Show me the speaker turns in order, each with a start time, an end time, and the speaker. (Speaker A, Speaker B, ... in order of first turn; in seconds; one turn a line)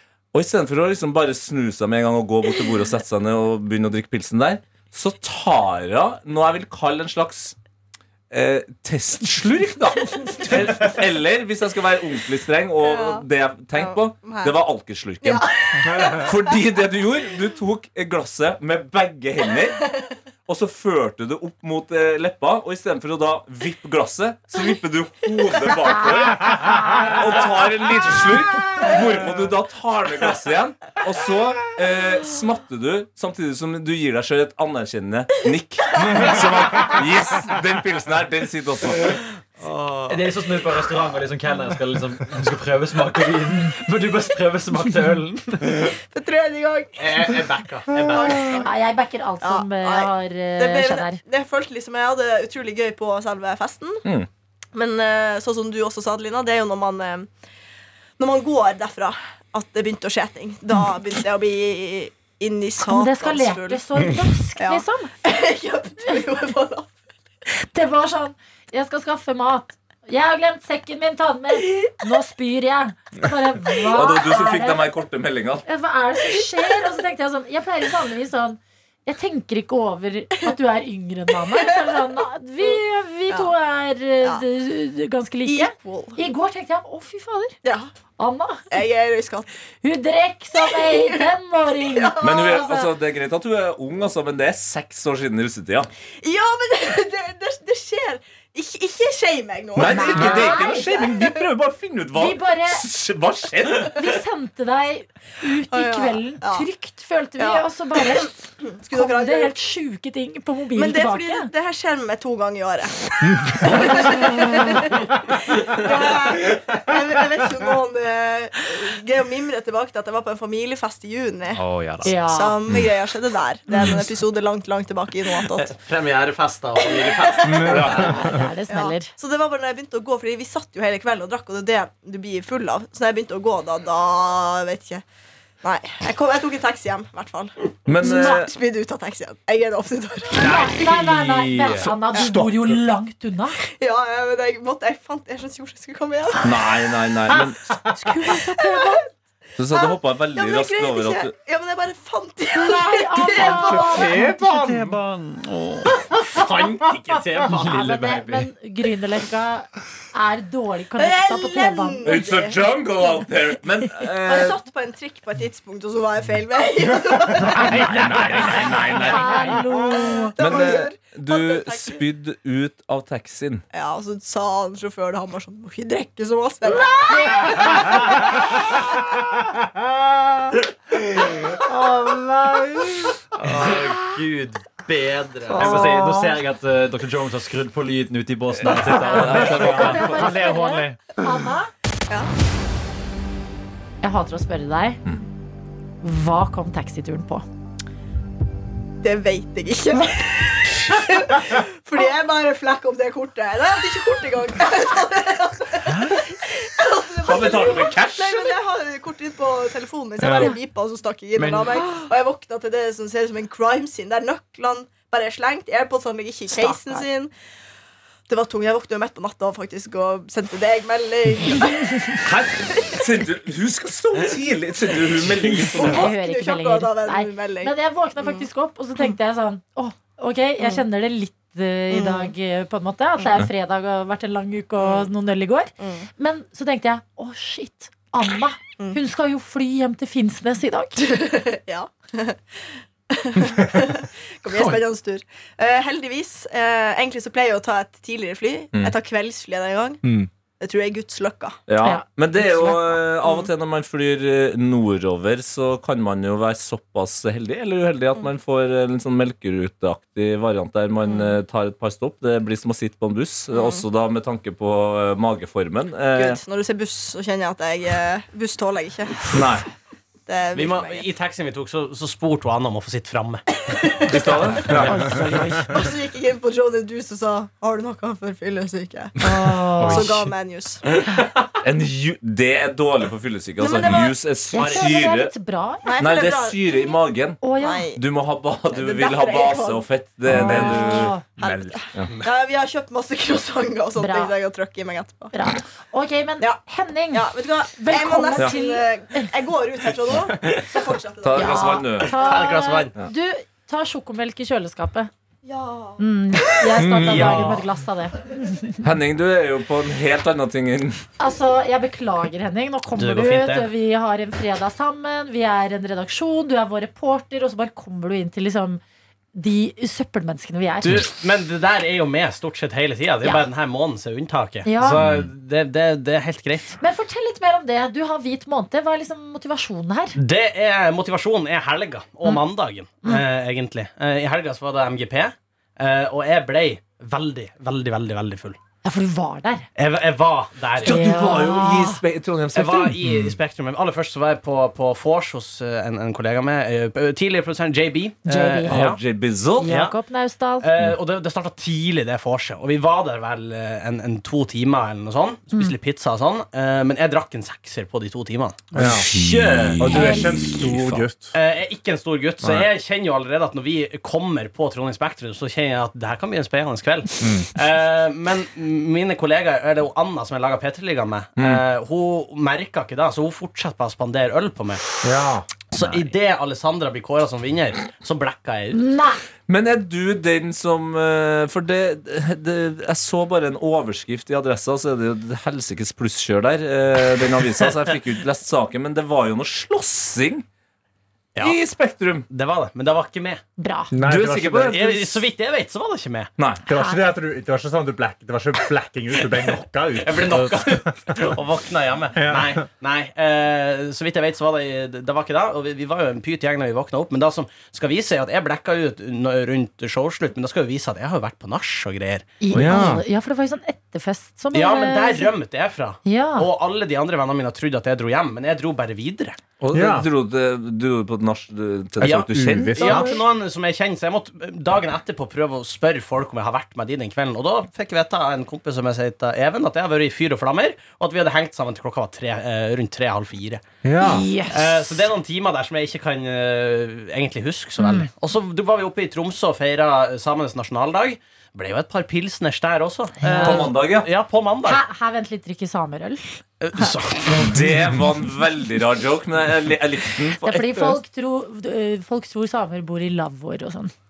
Speaker A: 0.3-7.6
Speaker A: 8.3-19.9
Speaker B: 12.8-14.6
Speaker B: 15.2-16.4
Speaker A: 20.4-39.2
Speaker C: 26.2-27.2
Speaker B: 36.0-36.8
Speaker D: 39.6-40.1
Speaker E: 40.1-45.8
Speaker B: 45.9-48.7
Speaker D: 47.0-48.7
Speaker C: 48.5-51.2
Speaker B: 49.4-54.0
Speaker B: 54.7-57.3
Speaker B: 58.2-66.9
Speaker C: 62.8-65.1
Speaker C: 67.5-74.8
Speaker A: 73.9-75.6
Speaker C: 75.6-87.5
Speaker B: 81.5-81.9
Speaker B: 85.4-86.2
Speaker B: 87.6-87.9
Speaker C: 88.2-88.7
Speaker B: 88.7-89.5
Speaker C: 89.8-92.7
Speaker B: 90.6-92.8
Speaker A: 92.2-95.9
Speaker B: 96.2-101.4
Speaker A: 99.7-104.0
Speaker C: 99.8-100.9
Speaker C: 102.1-102.8
Speaker C: 103.9-108.4
Speaker B: 105.7-106.7
Speaker B: 107.4-109.5
Speaker C: 108.9-111.5
Speaker B: 110.7-125.8
Speaker E: 121.5-122.1
Speaker C: 122.0-122.6
Speaker D: 125.6-128.1
Speaker B: 126.8-135.0
Speaker F: 127.4-128.4
Speaker A: 127.7-128.1
Speaker C: 127.8-129.1
Speaker B: 135.6-140.6
Speaker A: 137.8-138.5
Speaker C: 138.0-138.4
Speaker C: 140.4-143.6
Speaker E: 140.4-141.9
Speaker F: 142.2-142.7
Speaker B: 143.8-146.5
Speaker A: 146.4-147.6
Speaker C: 147.9-149.0
Speaker B: 148.3-148.9
Speaker A: 149.6-151.3
Speaker B: 149.7-154.1
Speaker C: 152.5-154.2
Speaker F: 153.3-155.0
Speaker E: 154.1-156.0
Speaker D: 156.3-158.2
Speaker E: 157.5-158.5
Speaker C: 157.6-162.1
Speaker B: 161.0-162.7
Speaker A: 162.0-164.6
Speaker B: 164.2-172.0
Speaker F: 167.7-170.1
Speaker A: 167.8-169.2
Speaker C: 168.9-170.3
Speaker A: 170.4-173.6
Speaker B: 173.7-178.8
Speaker F: 179.6-180.1
Speaker F: 181.5-183.2
Speaker E: 183.4-191.0
Speaker C: 185.6-185.9
Speaker A: 188.7-190.4
Speaker C: 189.1-191.7
Speaker C: 194.0-195.0
Speaker C: 196.0-197.4
Speaker B: 199.0-217.3
Speaker E: 205.9-206.2
Speaker A: 207.2-208.6
Speaker F: 210.2-210.5
Speaker C: 210.3-210.6
Speaker D: 211.4-211.8
Speaker C: 216.5-217.0
Speaker B: 218.3-223.0
Speaker A: 222.9-226.1
Speaker B: 225.6-228.4
Speaker C: 225.8-241.0
Speaker B: 231.9-232.3
Speaker B: 234.8-235.1
Speaker B: 235.8-236.1
Speaker B: 241.0-250.0
Speaker F: 243.4-243.8
Speaker F: 250.0-250.3
Speaker B: 250.6-251.6
Speaker A: 251.7-266.4
Speaker C: 251.8-252.8
Speaker B: 253.2-253.5
Speaker B: 261.1-261.3
Speaker B: 263.5-263.8
Speaker B: 266.1-269.4
Speaker A: 269.3-269.6
Speaker B: 270.3-271.1
Speaker D: 270.5-273.4
Speaker B: 273.7-275.0
Speaker A: 274.1-274.9
Speaker F: 274.7-275.6
Speaker C: 274.8-275.7
Speaker B: 275.6-280.8
Speaker C: 279.2-280.1
Speaker E: 279.8-280.1
Speaker A: 281.6-285.3
Speaker B: 283.6-284.6
Speaker C: 284.5-285.9
Speaker B: 285.8-287.0
Speaker A: 286.0-287.4
Speaker C: 287.4-287.9
Speaker B: 287.5-288.0
Speaker A: 287.9-291.1
Speaker B: 288.7-295.3
Speaker C: 290.3-291.2
Speaker F: 290.3-291.8
Speaker C: 294.0-294.3
Speaker C: 295.3-299.3
Speaker B: 297.1-302.5
Speaker A: 301.2-302.1
Speaker C: 301.3-305.1
Speaker D: 302.2-302.9
Speaker B: 305.4-306.0
Speaker C: 306.0-308.8
Speaker F: 306.8-307.4
Speaker D: 307.0-307.6
Speaker A: 308.8-311.0
Speaker C: 311.2-318.8
Speaker D: 312.9-313.7
Speaker C: 319.3-321.0
Speaker D: 320.8-326.8
Speaker C: 324.6-325.0
Speaker A: 325.0-325.3
Speaker C: 326.8-330.2
Speaker D: 330.1-338.6
Speaker C: 338.8-339.7
Speaker D: 339.7-341.1
Speaker A: 340.8-343.1
Speaker C: 340.8-342.0
Speaker D: 342.5-349.0
Speaker C: 348.2-348.8
Speaker A: 348.7-349.7
Speaker D: 349.6-349.9
Speaker C: 349.6-350.7
Speaker D: 350.6-359.8
Speaker F: 358.7-359.1
Speaker A: 358.8-361.0
Speaker F: 359.8-361.3
Speaker C: 359.9-360.4
Speaker D: 361.3-374.8
Speaker F: 367.2-367.5
Speaker A: 371.4-371.6
Speaker F: 375.0-375.5
Speaker D: 375.7-378.8
Speaker C: 378.7-379.2
Speaker A: 379.5-390.4
Speaker A: 391.4-392.3
Speaker D: 392.3-393.4
Speaker C: 393.6-393.9
Speaker F: 393.9-394.8
Speaker A: 394.0-395.2
Speaker D: 394.6-396.3
Speaker F: 396.6-401.4
Speaker C: 396.7-397.1
Speaker D: 400.0-412.9
Speaker F: 402.1-402.6
Speaker C: 412.4-415.3
Speaker F: 412.5-413.0
Speaker D: 414.5-419.4
Speaker C: 416.0-416.5
Speaker A: 419.6-423.0
Speaker F: 419.7-420.1
Speaker F: 422.0-423.2
Speaker D: 422.0-433.6
Speaker F: 433.8-434.3
Speaker C: 434.0-434.8
Speaker D: 434.4-444.8
Speaker C: 437.8-438.1
Speaker C: 443.2-443.7
Speaker A: 443.4-444.1
Speaker C: 444.6-446.8
Speaker D: 446.6-447.6
Speaker A: 447.3-451.0
Speaker C: 450.4-453.9